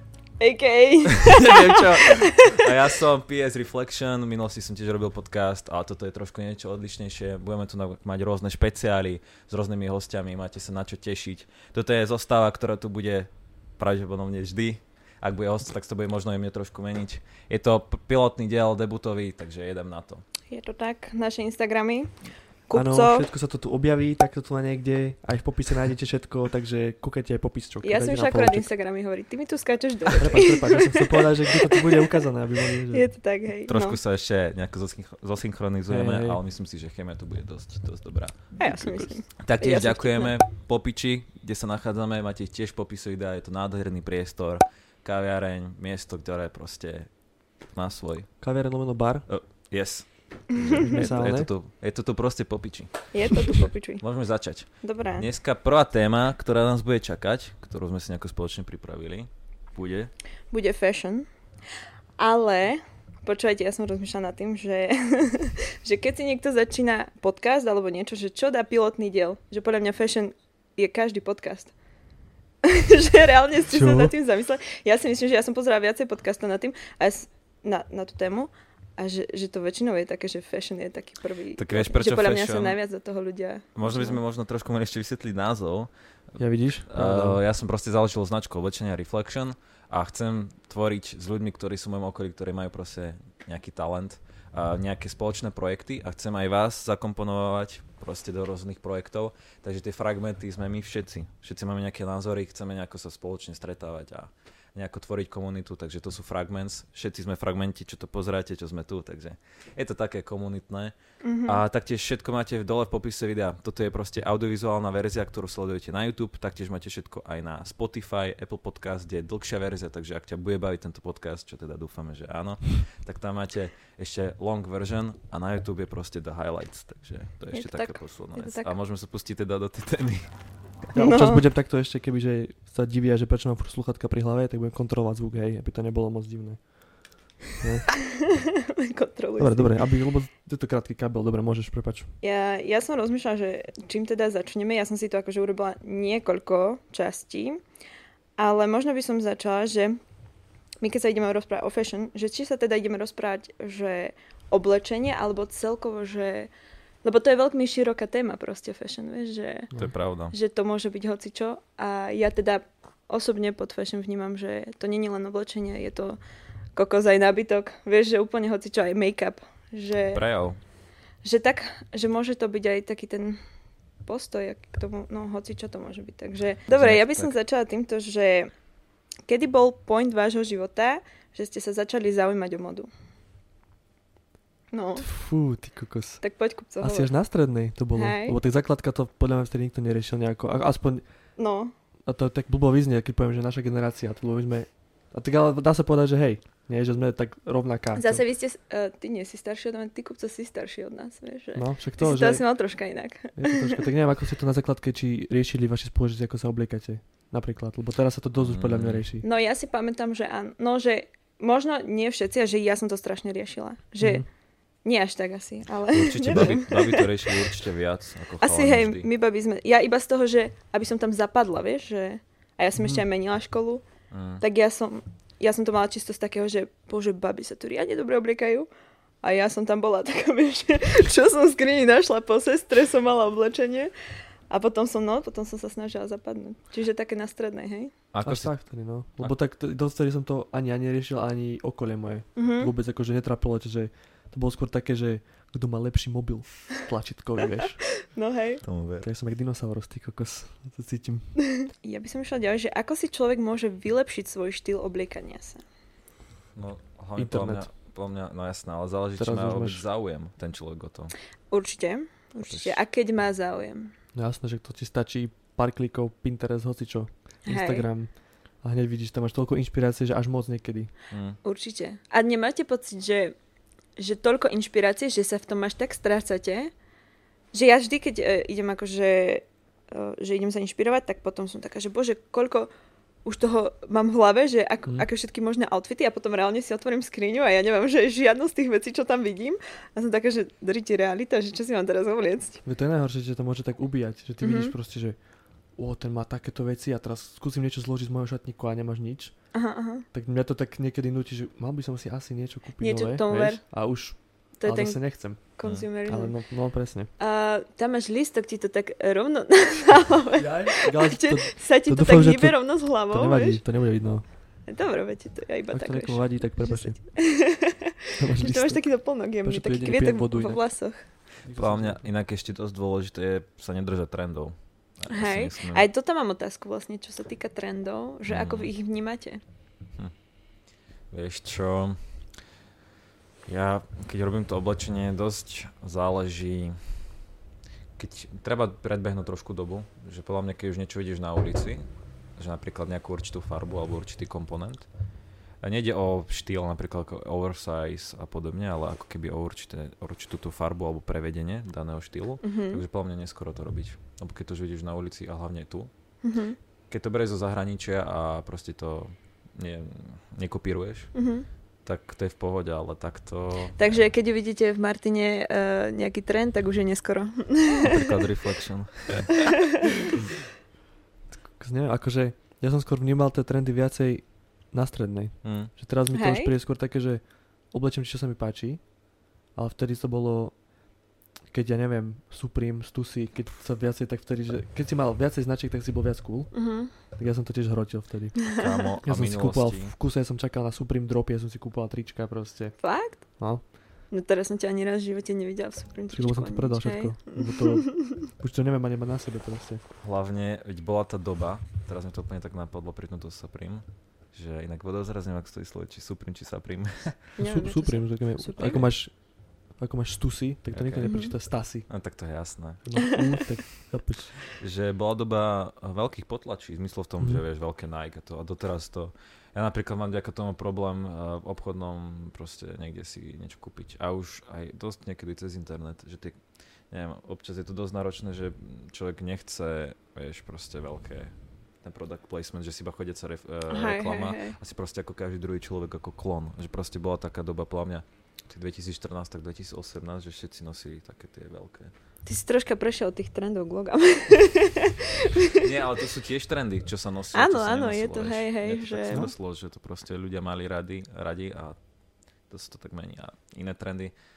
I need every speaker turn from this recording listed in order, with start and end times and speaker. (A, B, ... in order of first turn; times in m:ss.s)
0:00.4-0:02.6 A
0:01.2-0:20.2 B
0:20.5-0:22.1 A
0:22.7-0:23.3 A
0:22.7-0:28.7 C
0:27.8-0:32.2 A
0:30.2-0:33.1 C
0:32.9-0:34.0 A
0:33.7-0:38.4 B
0:35.9-0:36.4 C
0:38.6-0:40.4 A
0:38.6-0:39.2 C
0:39.4-0:47.1 B
0:47.7-0:48.4 B
0:48.4-0:49.3 C
0:49.3-1:00.1 B
0:50.7-0:51.5 C
0:53.1-0:54.0 A
0:54.8-0:55.3 A
1:00.5-1:01.3 A
1:02.2-1:11.7 A
1:12.6-1:24.2 A
1:13.7-1:14.1 C
1:21.6-1:22.8 B
1:23.8-1:25.9 B
1:26.4-1:27.4 C
1:26.8-1:50.9 B
1:51.2-1:51.6 A
1:51.4-2:10.3 B
2:07.5-2:08.8 A
2:11.0-2:11.4 A
2:11.0-2:16.6 C
2:17.6-2:17.9 C
2:18.3-2:19.8 A
2:19.4-2:22.1 C
2:22.2-2:27.6 A
2:28.4-2:30.0 A
2:30.8-2:36.5 A
2:37.0-2:39.7 A
2:39.8-2:40.4 B
2:40.3-2:46.2 A
2:46.8-2:50.2 A
2:50.1-2:50.6 B
2:51.2-2:53.4 A
2:54.0-2:58.5 A
2:56.7-2:57.4 B
2:59.3-3:02.9 A
3:04.7-3:05.1 A
3:05.0-3:06.2 C
3:06.2-3:07.2 A
3:06.8-3:11.0 C
3:07.9-3:08.4 A
3:11.4-3:11.7 A
3:12.1-3:18.2 C
3:18.0-3:23.9 A
3:21.6-3:22.6 C
3:23.4-3:29.2 C
3:28.4-3:29.1 B
3:29.2-3:34.2 A
3:34.0-3:34.3 C
3:34.8-3:37.1 A
3:35.9-3:39.1 B
3:38.4-3:43.9 A
3:42.8-3:43.0 C
3:44.1-3:44.4 B
3:44.4-3:48.7 A
3:49.2-3:53.9 A
3:54.5-3:57.9 A
3:58.1-3:58.5 B
3:58.2-4:07.8 C
4:02.4-4:02.7 A
4:08.1-4:08.6 A
4:08.6-4:09.1 B
4:09.0-4:11.3 C
4:11.6-4:15.6 A
4:16.6-4:21.1 B
4:17.2-4:17.7 C
4:19.2-4:19.9 C
4:21.5-4:23.9 A
4:22.4-4:22.8 B
4:24.2-4:30.9 C
4:27.5-4:27.9 A
4:31.1-4:31.4 B
4:31.4-4:33.4 A
4:34.0-4:36.7 A
4:37.5-4:42.7 A
4:43.2-4:52.6 A
4:52.6-4:55.2 C
4:54.4-4:54.8 A
4:55.8-4:59.4 C
4:59.5-5:00.1 A
5:00.1-5:05.5 C
5:02.8-5:03.6 A
5:04.6-5:06.4 A
5:06.0-5:07.1 C
5:07.2-5:13.6 A
5:10.4-5:14.2 C
5:14.7-5:21.1 A
5:15.7-5:17.0 C
5:18.2-5:20.6 C
5:21.4-5:22.1 C
5:21.5-5:25.9 B
5:25.1-5:29.4 A
5:28.3-5:28.7 B
5:31.1-5:32.0 B
5:33.5-5:36.8 B
5:38.0-5:44.9 B
5:45.6-5:55.9 B
5:52.4-5:52.8 A
5:56.2-5:56.6 A
5:56.9-6:01.1 B
6:01.1-6:01.5 A
6:01.8-6:04.1 B
6:03.8-6:08.0 A
6:07.8-6:09.4 B
6:11.5-6:18.8 C
6:15.4-6:15.7 B
6:16.1-6:16.5 A
6:19.6-6:20.5 C
6:21.5-6:26.5 C
6:26.5-6:26.9 A
6:27.2-6:28.4 C
6:28.6-6:29.9 B
6:29.0-6:32.8 C
6:32.8-6:33.3 A
6:34.1-6:38.2 A
6:36.1-6:39.8 C
6:40.0-6:47.2 B
6:47.4-6:48.9 A
6:47.4-6:51.9 C
6:50.7-6:52.8 B
6:51.0-6:51.3 A
6:52.8-6:54.4 C
6:54.6-7:06.4 B
6:57.2-6:57.4 C
7:06.9-7:21.9 B
7:13.7-7:14.6 A
7:22.2-7:25.5 A
7:25.6-7:31.8 B
7:27.3-7:29.3 A
7:32.5-7:34.1 B